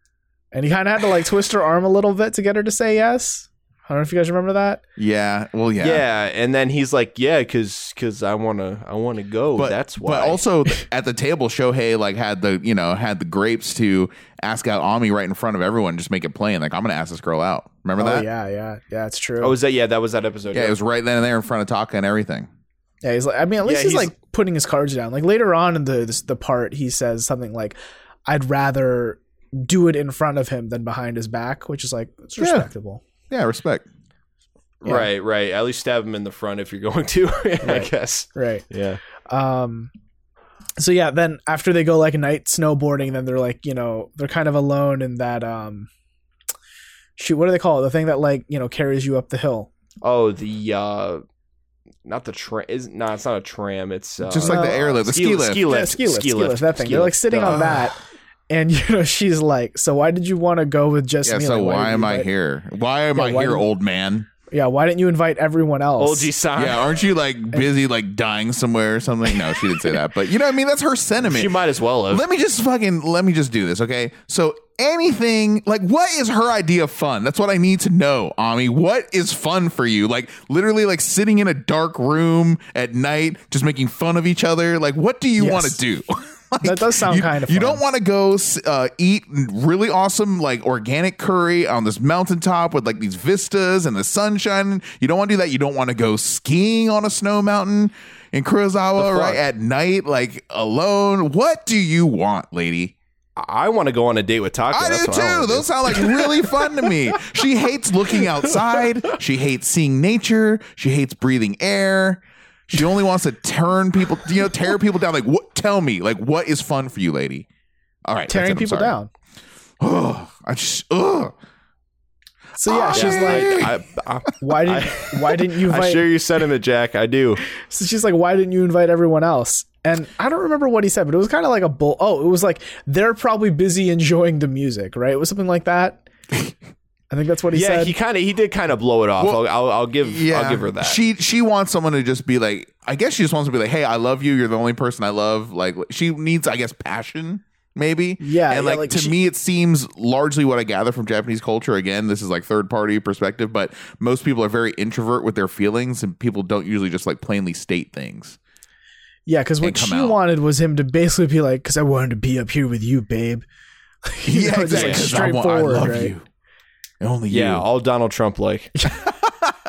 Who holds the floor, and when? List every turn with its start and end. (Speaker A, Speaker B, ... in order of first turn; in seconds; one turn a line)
Speaker A: 0.5-4.8
Speaker B: 5.0-6.0
Speaker C: 5.8-10.4
Speaker B: 9.6-18.3
Speaker A: 18.0-19.5
Speaker C: 19.4-20.7
Speaker B: 20.5-22.5
Speaker A: 23.0-33.0
Speaker C: 23.6-24.1
Speaker B: 32.4-32.7
Speaker B: 33.3-33.9
Speaker C: 34.8-39.0
Speaker A: 37.6-38.6
Speaker A: 39.2-39.9
Speaker A: 40.8-45.9
Speaker A: 47.2-49.7
Speaker C: 50.0-51.2
Speaker C: 52.0-57.9
Speaker B: 54.2-55.6
Speaker A: 54.4-55.0
Speaker A: 55.6-58.0
Speaker A: 58.5-62.3
Speaker B: 61.2-64.3
Speaker A: 63.1-63.6
Speaker A: 64.5-66.3
Speaker C: 66.0-67.0
Speaker B: 66.5-102.9
Speaker C: 71.2-72.2
Speaker A: 85.4-85.8
Speaker A: 86.6-87.8
Speaker C: 99.0-99.4
Speaker C: 103.4-106.9
Speaker B: 104.7-117.5
Speaker B: 118.0-118.9
Speaker A: 118.3-119.1
Speaker B: 119.8-121.3
Speaker A: 122.6-123.7
Speaker B: 122.7-123.7
Speaker C: 122.9-127.4
Speaker A: 124.4-126.1
Speaker A: 127.5-136.0
Speaker A: 137.1-137.9
Speaker C: 137.5-141.0
Speaker B: 140.0-158.4
Speaker A: 148.2-149.2
Speaker A: 159.3-163.4
Speaker B: 159.6-160.2
Speaker A: 164.0-166.1
Speaker B: 164.3-166.2
Speaker C: 164.7-165.2
Speaker B: 167.0-167.6
Speaker C: 167.3-168.8
Speaker B: 169.1-169.6